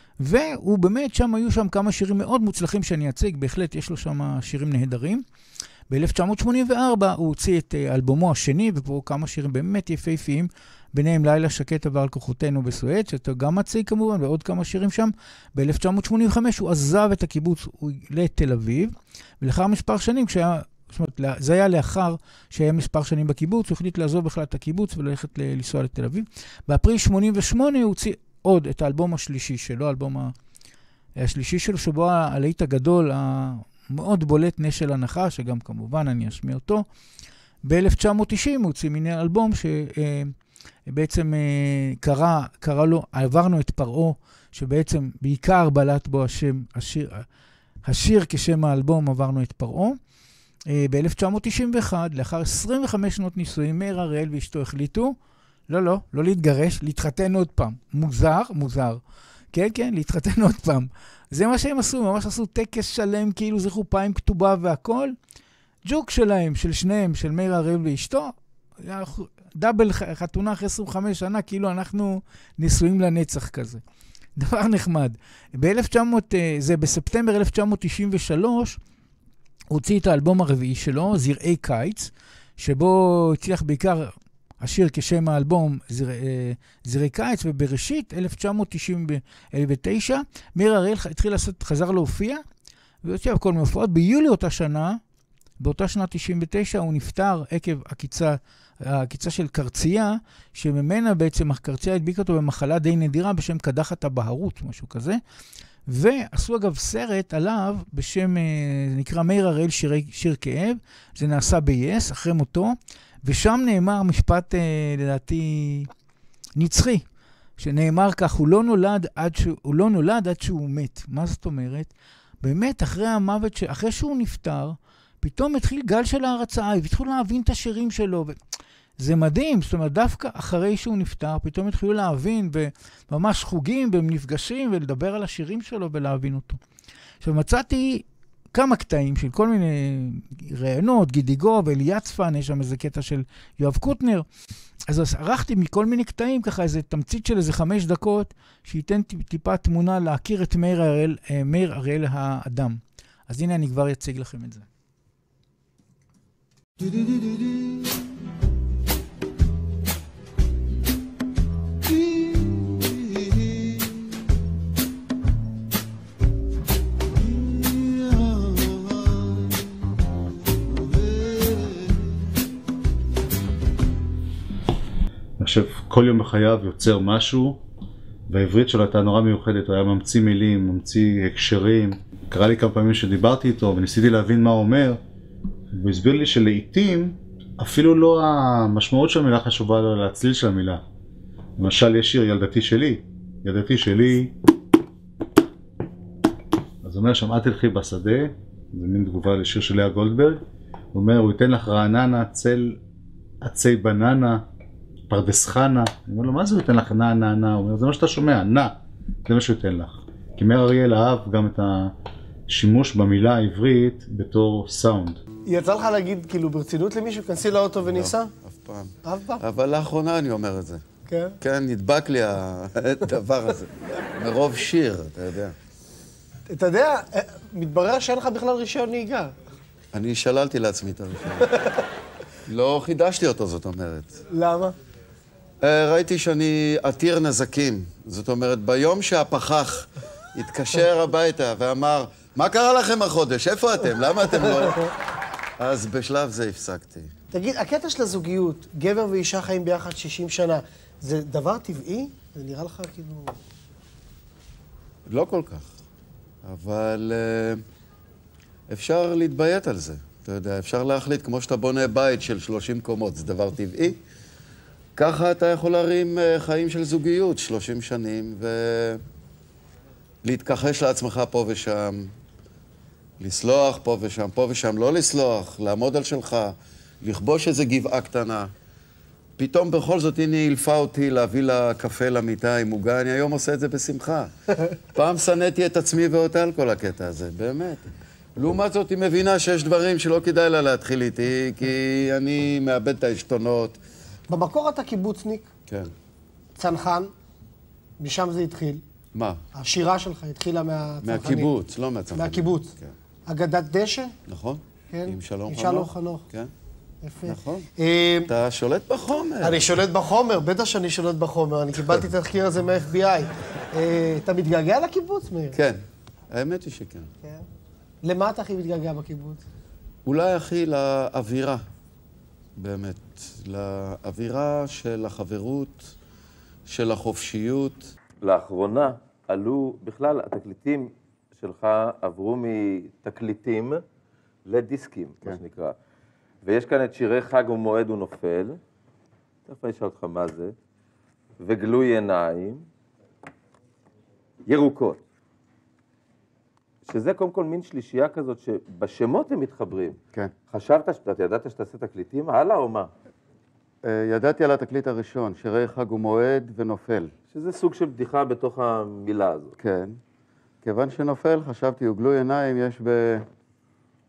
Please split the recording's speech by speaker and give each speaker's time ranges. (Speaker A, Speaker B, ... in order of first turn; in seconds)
Speaker A: 0.2-5.2, 5.9-30.3, 31.2-36.9, 37.6-40.3, 40.9-47.2, 47.9-50.0, 50.7-55.2, 55.7-59.0, 59.5-65.2, 65.8-73.8, 74.4-78.8, 79.7-92.4, 93.0-95.0, 95.6-105.2, 105.9-115.9, 116.6-117.0, 117.6-128.4, 129.0-136.6, 137.2-144.3, 144.9-154.7
Speaker B: 156.9-157.3, 161.9-163.5, 167.5-169.2, 170.7-171.9, 217.8-220.8, 221.4-225.6, 229.9-231.5, 232.5-234.2, 235.6-244.9, 245.6-247.1, 255.1-255.7, 256.4-257.6, 258.7-264.0, 265.0-269.0, 270.2-272.1, 273.2-278.5, 279.4-284.3, 284.9-293.8, 299.1-299.4, 301.0-302.9, 304.3-306.5, 307.3-307.7, 308.3-309.7, 311.8-312.1, 315.5-317.1, 320.1-321.6, 322.6-325.9, 326.7-327.9, 353.8-357.1, 359.6-360.0, 360.6-363.3
Speaker C: 175.4-177.6, 178.3-185.0, 185.7-190.8, 191.6-194.3, 196.8-200.4, 200.9-202.8, 203.4-204.4, 205.1-208.7, 209.2-211.9, 212.5-215.2
Speaker D: 215.5-218.3, 219.1-219.4, 221.1-221.4, 226.5-229.3, 234.3-234.8, 247.3-253.3, 294.3-295.5, 296.6-297.1, 298.0-298.8, 299.6-301.5, 302.1-302.7, 303.3-304.1, 304.9-306.2, 307.0-308.3, 309.4-315.6, 318.0-319.4
Speaker E: 328.2-333.8, 334.5-335.8, 336.4-338.6, 339.5-340.6, 341.4-342.7, 344.5-345.0, 346.9-350.0, 350.5-352.9, 357.3-359.5